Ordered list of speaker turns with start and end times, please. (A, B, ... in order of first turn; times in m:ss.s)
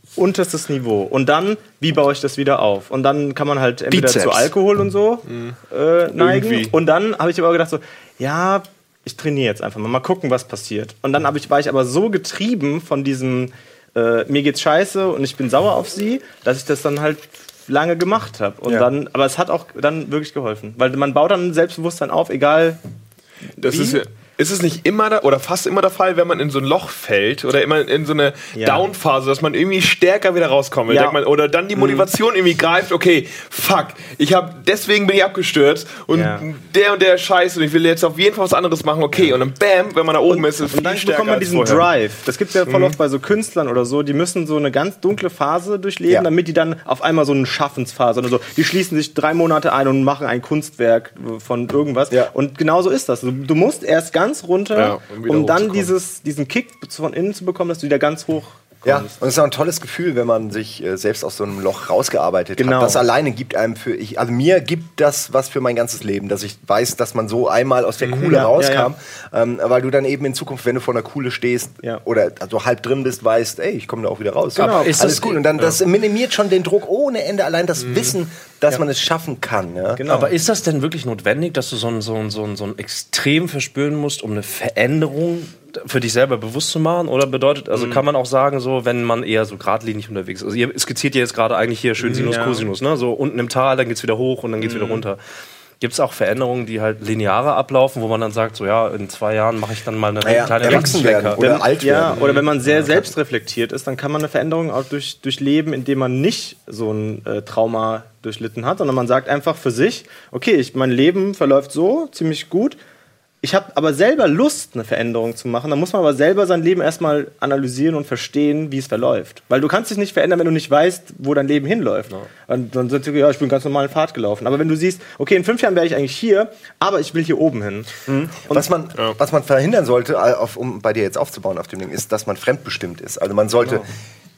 0:00.2-0:22.8 A
0:03.9-0:04.5 B
0:05.3-0:05.6 C
0:06.1-0:06.8 C
0:23.6-0:41.9 C
0:23.6-0:24.0 A
0:28.5-0:28.8 A
0:30.9-0:31.2 A
0:31.8-0:32.1 B
0:36.1-0:36.4 A
0:40.3-0:59.1 A
0:42.7-0:43.0 C
0:54.7-0:55.9 C
0:58.8-1:20.1 D
1:02.6-1:03.0 A
1:08.0-1:08.5 C
1:08.3-1:08.9 A
1:14.6-1:15.0 A
1:14.6-1:15.4 B
1:17.8-1:18.1 C
1:20.0-1:20.3 A
1:20.1-1:35.2 B
1:27.8-1:28.0 A
1:32.0-1:32.3 C
1:32.2-1:32.7 A
1:34.6-1:35.0 C
1:35.8-1:41.4 B
1:40.2-1:42.2 D
1:40.6-1:52.8 A
1:42.2-1:42.5 C
1:53.4-2:08.6 A
2:08.4-2:13.8 D
2:13.6-2:13.9 A